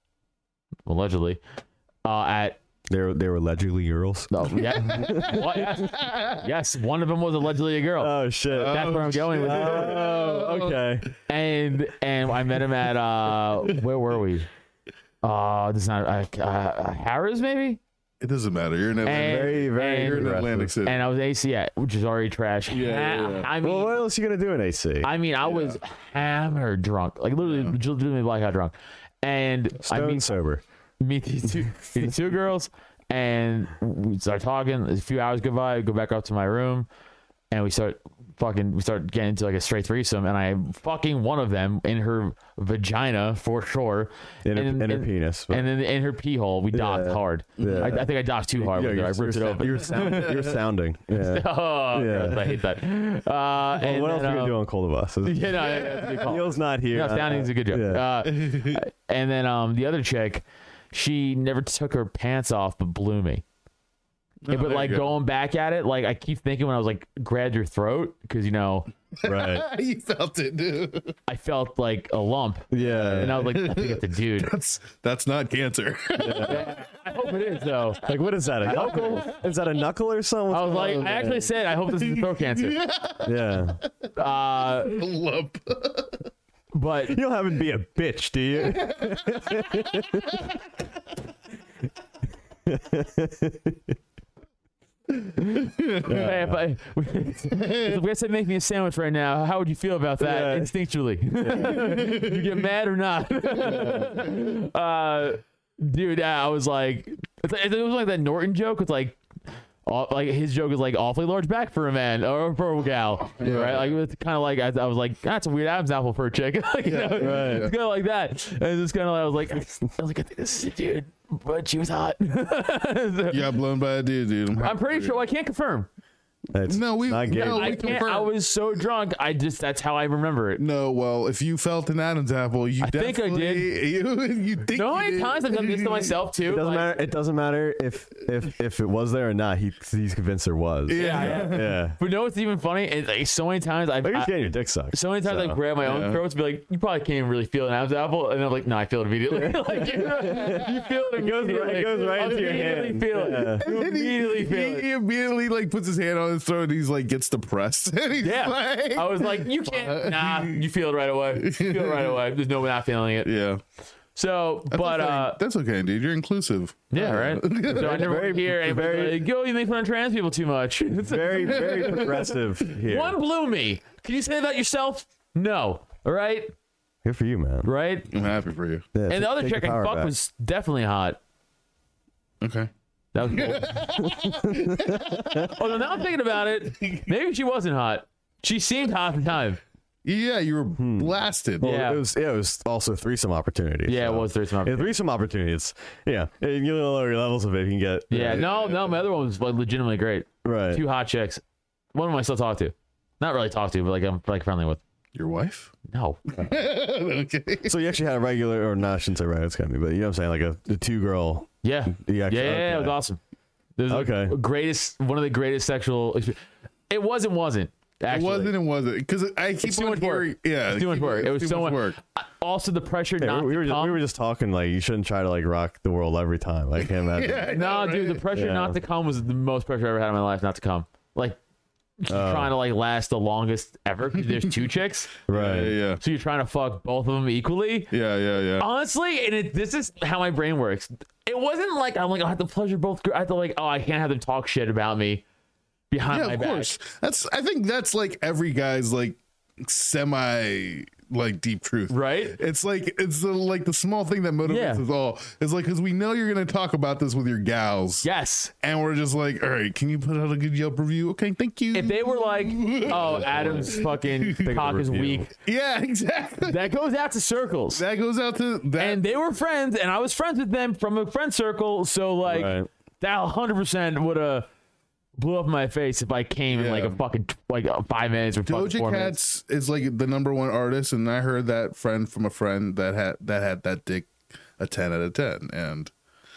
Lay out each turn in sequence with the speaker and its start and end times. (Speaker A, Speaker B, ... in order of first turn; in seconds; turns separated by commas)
Speaker A: 0.8-1.4, Speaker A: 2.0-2.6, Speaker B: 2.9-5.8, Speaker A: 4.3-10.1, Speaker C: 5.8-6.3, Speaker B: 8.0-8.9, Speaker C: 8.5-10.8, Speaker B: 9.4-11.1, Speaker A: 11.3-14.5, Speaker A: 15.2-17.8, Speaker C: 18.2-21.0, Speaker A: 19.0-24.0, Speaker B: 19.1-20.8, Speaker C: 22.7-23.5, Speaker B: 23.6-25.1, Speaker A: 25.0-30.3, Speaker C: 25.4-25.8, Speaker C: 27.4-27.8, Speaker B: 29.8-30.6, Speaker A: 31.0-36.9, Speaker A: 37.5-50.3, Speaker B: 44.4-45.7, Speaker B: 46.7-52.6, Speaker C: 47.6-48.0, Speaker C: 49.9-50.4, Speaker A: 51.1-54.6, Speaker B: 53.8-58.1, Speaker A: 55.2-63.4, Speaker C: 55.6-56.3, Speaker C: 58.2-58.8, Speaker C: 64.4-65.1, Speaker A: 64.5-68.9, Speaker C: 69.2-71.2, Speaker B: 69.2-69.7, Speaker A: 71.3-74.5, Speaker B: 72.7-73.4, Speaker C: 73.2-76.8, Speaker B: 76.2-76.7, Speaker A: 76.4-78.0, Speaker B: 78.0-81.5, Speaker A: 78.6-79.4, Speaker C: 78.8-79.2, Speaker A: 80.5-82.8, Speaker C: 81.8-83.8, Speaker B: 83.2-83.8, Speaker A: 84.2-85.0, Speaker C: 84.7-86.2, Speaker A: 86.7-87.2, Speaker B: 87.1-90.5, Speaker C: 88.6-89.8, Speaker B: 92.6-94.0, Speaker C: 95.5-96.0, Speaker A: 96.0-109.2, Speaker B: 96.0-96.6, Speaker C: 97.5-98.0, Speaker B: 100.2-100.7, Speaker B: 101.5-101.8, Speaker C: 101.6-102.5, Speaker B: 103.6-104.1, Speaker C: 103.6-104.3, Speaker A: 109.8-123.5, Speaker C: 113.4-113.9, Speaker C: 116.8-117.7, Speaker B: 117.2-117.7, Speaker C: 123.3-125.2, Speaker A: 124.6-125.9, Speaker B: 126.5-127.9, Speaker C: 126.7-128.3, Speaker A: 127.3-130.6, Speaker C: 130.6-136.2, Speaker A: 132.8-133.7, Speaker A: 134.7-136.9, Speaker B: 136.4-142.0, Speaker C: 140.9-141.8, Speaker A: 140.9-144.3, Speaker B: 144.0-145.6, Speaker A: 144.9-154.8, Speaker C: 145.8-146.2, Speaker B: 149.3-153.6, Speaker C: 153.6-160.6, Speaker A: 158.2-163.3, Speaker C: 161.3-162.2, Speaker C: 163.2-163.6, Speaker A: 164.2-165.4, Speaker C: 164.7-168.2, Speaker A: 166.9-172.2, Speaker B: 167.7-169.2, Speaker B: 171.0-173.2, Speaker C: 171.5-172.2, Speaker A: 172.8-176.5, Speaker B: 177.0-177.7, Speaker A: 177.6-178.1, Speaker C: 178.1-178.8, Speaker B: 178.9-180.1, Speaker A: 179.1-181.2, Speaker C: 182.4-182.7, Speaker A: 183.1-184.0, Speaker C: 183.3-185.5, Speaker B: 184.2-185.5, Speaker A: 185.4-189.6, Speaker C: 190.0-191.7, Speaker B: 190.8-198.5, Speaker A: 191.6-192.0, Speaker A: 193.9-194.9, Speaker A: 198.1-201.4, Speaker C: 198.3-199.0, Speaker B: 200.4-200.8, Speaker A: 201.9-204.8, Speaker C: 205.1-205.7, Speaker A: 205.9-206.4, Speaker C: 206.3-207.7, Speaker B: 207.6-213.0, Speaker A: 211.6-213.2, Speaker A: 213.8-216.4, Speaker B: 213.9-214.3, Speaker A: 216.9-218.5, Speaker C: 218.1-222.0, Speaker A: 219.6-224.0, Speaker B: 223.2-227.5, Speaker C: 226.8-228.2, Speaker A: 227.5-231.4, Speaker B: 228.3-228.8, Speaker A: 232.0-235.1, Speaker B: 232.1-232.5, Speaker B: 235.3-235.8, Speaker C: 235.3-236.0, Speaker A: 236.0-237.9, Speaker C: 237.9-238.7, Speaker A: 238.6-245.2, Speaker A: 245.9-246.7, Speaker C: 246.1-258.1, Speaker A: 251.9-252.4, Speaker A: 254.4-254.8, Speaker A: 258.0-258.5, Speaker C: 258.6-264.5, Speaker A: 261.7-265.3, Speaker B: 262.9-263.8, Speaker B: 264.4-265.3, Speaker C: 265.4-266.6, Speaker A: 266.4-267.8, Speaker C: 267.7-269.0, Speaker A: 268.8-274.5, Speaker B: 272.2-272.7, Speaker A: 275.2-279.2, Speaker C: 276.5-277.0, Speaker C: 278.5-285.9